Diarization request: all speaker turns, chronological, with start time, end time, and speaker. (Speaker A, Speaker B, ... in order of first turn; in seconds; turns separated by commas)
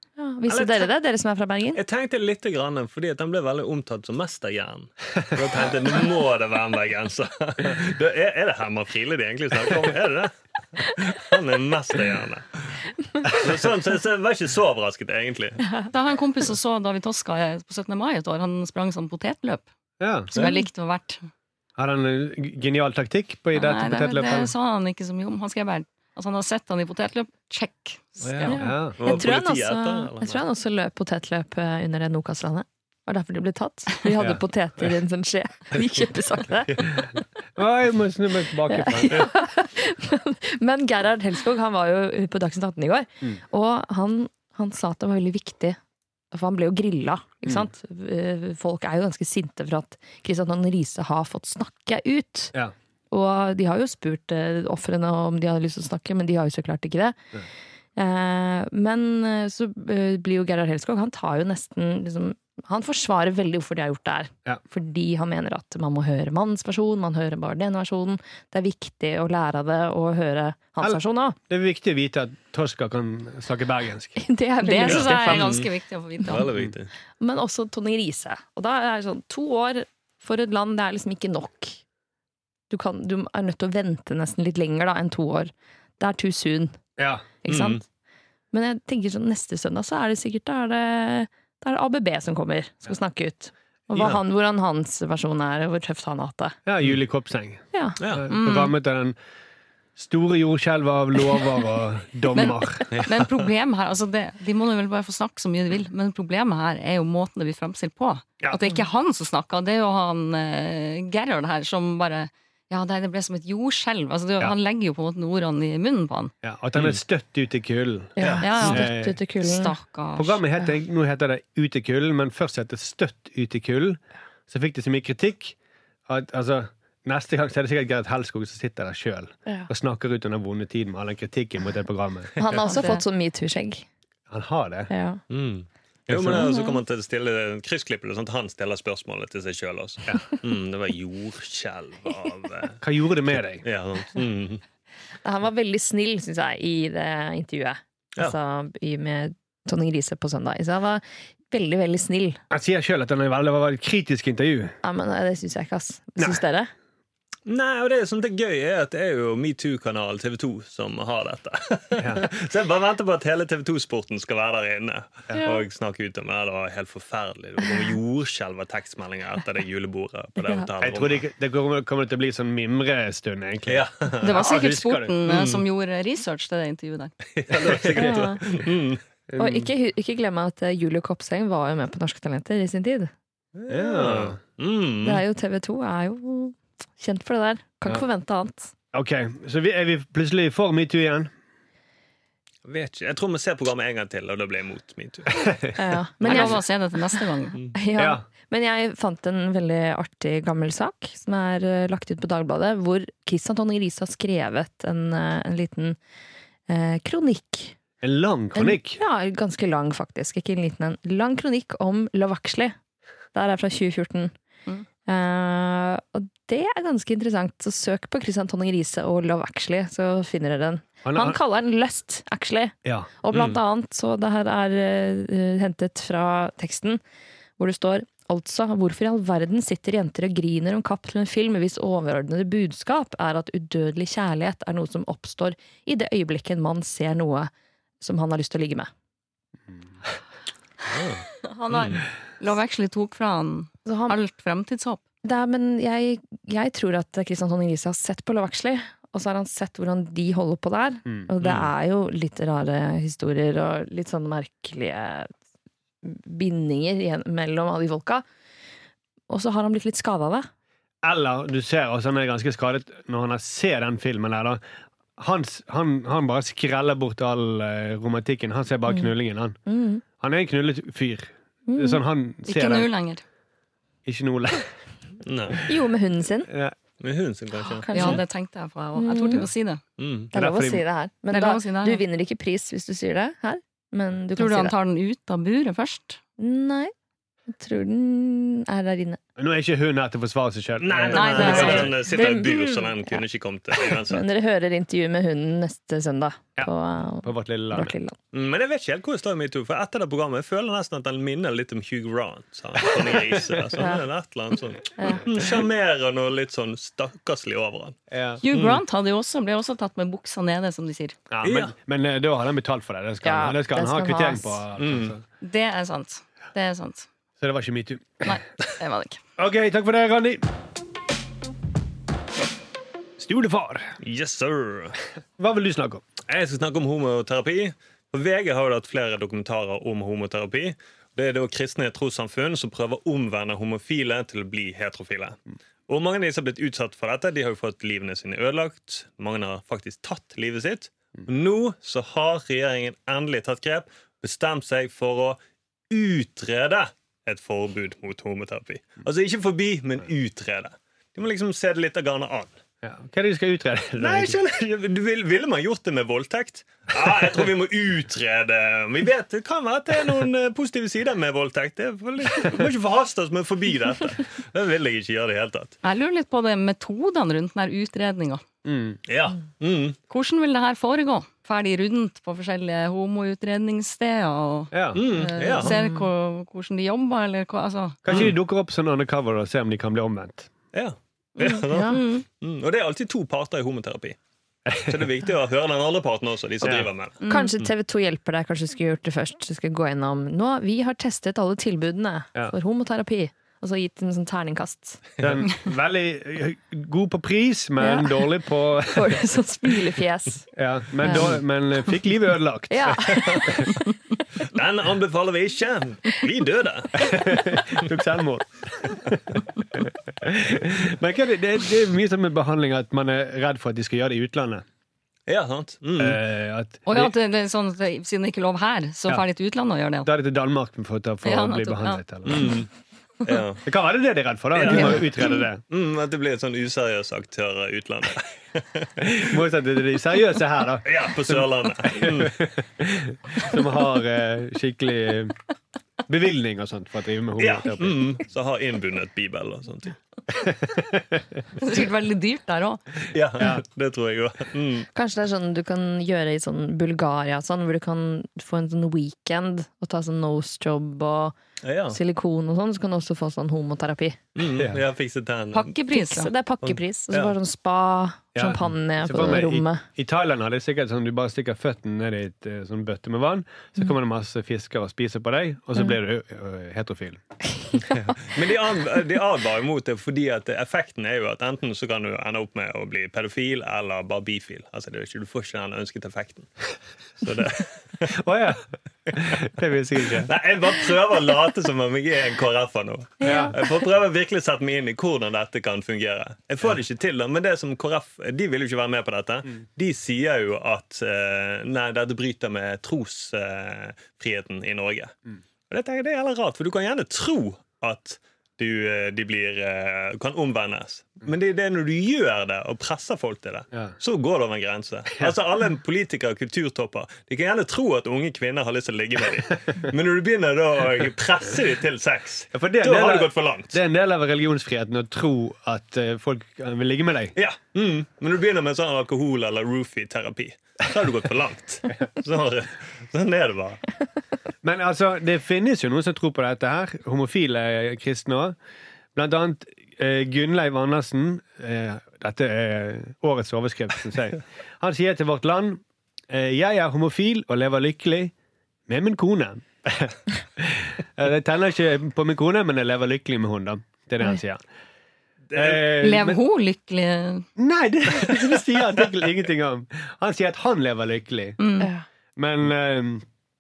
Speaker A: 0.2-1.8, Speaker B: 0.5-0.9, Speaker B: 1.7-15.7, Speaker C: 15.9-19.7, Speaker D: 20.0-20.3, Speaker C: 20.3-21.3, Speaker D: 21.8-24.5, Speaker C: 23.6-28.6, Speaker B: 28.2-30.4, Speaker A: 28.5-36.9, Speaker D: 28.6-29.0, Speaker D: 37.6-39.3, Speaker A: 38.7-45.8, Speaker A: 46.3-52.5, Speaker A: 53.1-57.2, Speaker A: 58.0-71.4, Speaker D: 70.8-74.2, Speaker A: 74.2-75.5, Speaker C: 74.6-76.4, Speaker B: 74.9-75.7, Speaker B: 76.2-76.9, Speaker A: 77.2-81.8, Speaker A: 82.7-86.8, Speaker D: 87.0-87.2, Speaker A: 87.4-87.8, Speaker B: 87.5-87.8, Speaker A: 88.5-96.6, Speaker B: 94.0-94.2, Speaker D: 96.7-99.2, Speaker B: 98.0-98.3, Speaker C: 98.3-98.8, Speaker D: 100.0-103.1, Speaker C: 102.4-116.3, Speaker B: 102.9-103.3, Speaker D: 116.4-119.2, Speaker A: 118.2-119.8, Speaker C: 118.4-120.4, Speaker D: 120.2-125.6, Speaker D: 126.1-132.4, Speaker A: 132.4-133.9, Speaker C: 132.6-133.1, Speaker D: 134.3-134.9, Speaker A: 134.9-135.2, Speaker B: 135.3-142.8, Speaker D: 136.1-136.6, Speaker A: 136.3-136.8, Speaker D: 142.8-143.7, Speaker B: 143.3-144.6, Speaker A: 145.2-152.4, Speaker D: 152.5-154.8, Speaker A: 154.8-156.7, Speaker B: 157.5-171.2, Speaker D: 162.0-162.3, Speaker D: 165.3-165.6, Speaker D: 170.8-175.2, Speaker B: 173.7-174.4, Speaker C: 174.2-177.1, Speaker B: 175.3-175.6, Speaker B: 177.3-179.0, Speaker D: 177.5-178.1, Speaker A: 178.0-178.4, Speaker D: 179.3-179.7, Speaker A: 179.4-183.1, Speaker B: 183.6-185.2, Speaker D: 183.7-184.4, Speaker A: 185.0-188.7, Speaker D: 188.9-191.3, Speaker B: 192.7-195.6, Speaker A: 195.8-196.6, Speaker C: 196.2-197.6, Speaker B: 196.2-196.6, Speaker A: 197.7-206.0, Speaker D: 198.0-198.2, Speaker A: 206.7-207.8, Speaker D: 208.0-209.0, Speaker A: 208.6-212.8, Speaker A: 213.3-214.3, Speaker A: 215.1-227.0, Speaker D: 221.0-221.4, Speaker B: 223.3-223.6, Speaker A: 227.6-238.9, Speaker B: 240.9-242.0, Speaker C: 241.4-245.0, Speaker A: 243.9-244.2, Speaker A: 245.2-255.3, Speaker B: 251.4-251.7, Speaker A: 256.0-258.2, Speaker A: 259.3-260.5, Speaker D: 261.0-264.6, Speaker D: 265.2-269.6, Speaker A: 269.7-270.0, Speaker D: 270.2-272.9, Speaker A: 271.7-272.0, Speaker C: 272.5-273.2, Speaker D: 274.1-274.7, Speaker B: 275.2-275.6, Speaker A: 275.7-276.5, Speaker D: 276.5-276.8, Speaker B: 277.0-278.2, Speaker A: 277.9-278.2, Speaker C: 277.9-279.8, Speaker A: 279.0-279.4, Speaker B: 280.0-280.3, Speaker A: 280.3-284.8, Speaker D: 280.3-280.9, Speaker C: 281.3-282.0, Speaker C: 284.4-286.2, Speaker A: 286.4-286.9, Speaker A: 287.5-289.2, Speaker D: 289.4-291.9, Speaker B: 290.8-294.2, Speaker C: 291.1-292.0, Speaker A: 291.4-293.2, Speaker A: 294.1-298.1, Speaker D: 297.2-297.9, Speaker B: 298.3-308.0, Speaker A: 305.0-305.2, Speaker D: 308.1-308.4, Speaker C: 308.4-311.2, Speaker B: 308.5-308.8, Speaker D: 311.3-315.2, Speaker B: 311.4-311.7, Speaker A: 313.2-314.6, Speaker B: 314.8-315.1, Speaker C: 315.4-317.1, Speaker D: 317.4-318.4, Speaker C: 318.2-319.2, Speaker D: 319.4-320.4, Speaker D: 323.2-324.0, Speaker B: 324.0-325.0, Speaker D: 325.4-326.1, Speaker B: 326.3-335.4, Speaker B: 335.9-345.4, Speaker B: 345.9-352.6, Speaker D: 352.8-354.4, Speaker B: 354.0-365.8, Speaker C: 365.8-368.4, Speaker D: 368.6-369.0, Speaker B: 369.1-370.0, Speaker C: 370.1-378.0, Speaker D: 374.7-375.1, Speaker B: 374.9-375.8, Speaker A: 375.6-376.0, Speaker D: 378.0-380.5, Speaker B: 380.7-384.2, Speaker C: 381.4-382.2, Speaker A: 381.7-382.0, Speaker D: 384.7-385.0, Speaker B: 384.8-387.2, Speaker D: 386.6-386.9, Speaker C: 387.2-387.5, Speaker A: 387.3-395.0, Speaker D: 395.2-399.2, Speaker A: 397.8-400.5, Speaker D: 400.5-403.7, Speaker B: 401.1-401.4, Speaker A: 402.7-403.7, Speaker B: 403.1-403.6, Speaker B: 404.4-407.2, Speaker D: 407.0-414.6, Speaker B: 415.3-416.2, Speaker D: 416.0-417.1, Speaker C: 416.9-420.1, Speaker D: 420.1-422.6, Speaker C: 421.2-422.0, Speaker B: 422.2-422.7, Speaker B: 423.2-423.6, Speaker D: 423.6-425.6, Speaker B: 424.5-429.2, Speaker D: 429.0-435.4, Speaker B: 430.8-432.4, Speaker D: 436.1-438.0, Speaker B: 437.4-440.0, Speaker D: 440.4-441.4, Speaker C: 441.6-442.8, Speaker B: 443.1-444.9, Speaker A: 444.9-451.4, Speaker B: 451.6-452.0, Speaker A: 451.9-454.2, Speaker B: 454.4-455.8, Speaker C: 455.5-456.3, Speaker A: 455.9-459.8, Speaker B: 456.6-457.4, Speaker D: 458.4-467.2, Speaker A: 467.6-468.2, Speaker B: 468.2-476.5, Speaker B: 477.2-478.2, Speaker D: 478.1-480.3, Speaker B: 480.2-495.1, Speaker A: 483.2-483.5, Speaker D: 483.2-483.6, Speaker B: 495.7-513.8, Speaker D: 512.5-517.3, Speaker B: 517.4-523.8, Speaker D: 524.6-528.6, Speaker D: 529.1-538.3, Speaker D: 538.9-544.6, Speaker B: 545.5-545.9, Speaker D: 545.5-546.4, Speaker C: 546.0-547.5, Speaker D: 547.6-551.6, Speaker C: 551.6-551.9, Speaker D: 552.4-553.2